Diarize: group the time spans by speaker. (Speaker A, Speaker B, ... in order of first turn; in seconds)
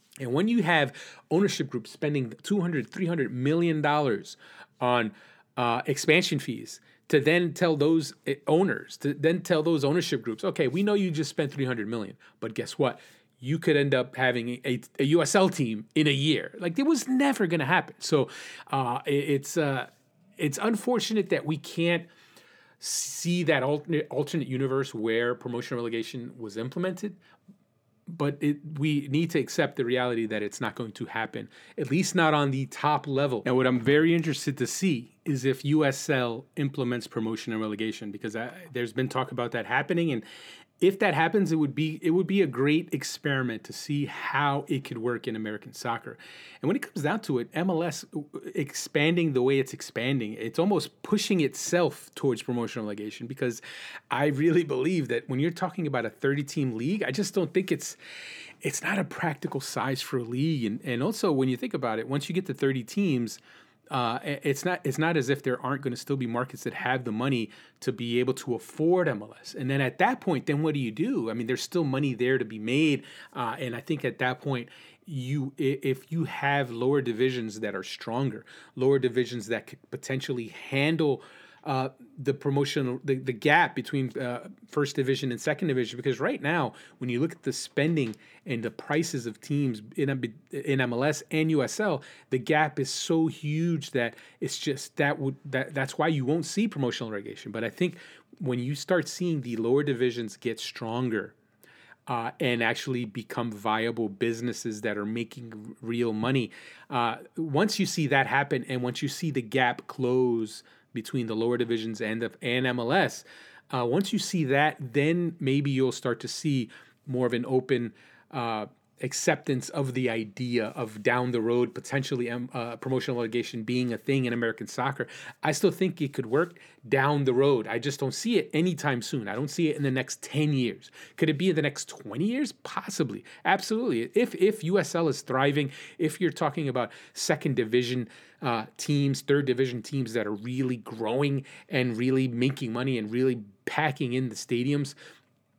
Speaker A: 0.2-22.1, 22.8-27.2, 28.1-40.2, 40.8-58.0, 58.6-63.4, 63.9-101.3, 102.1-144.9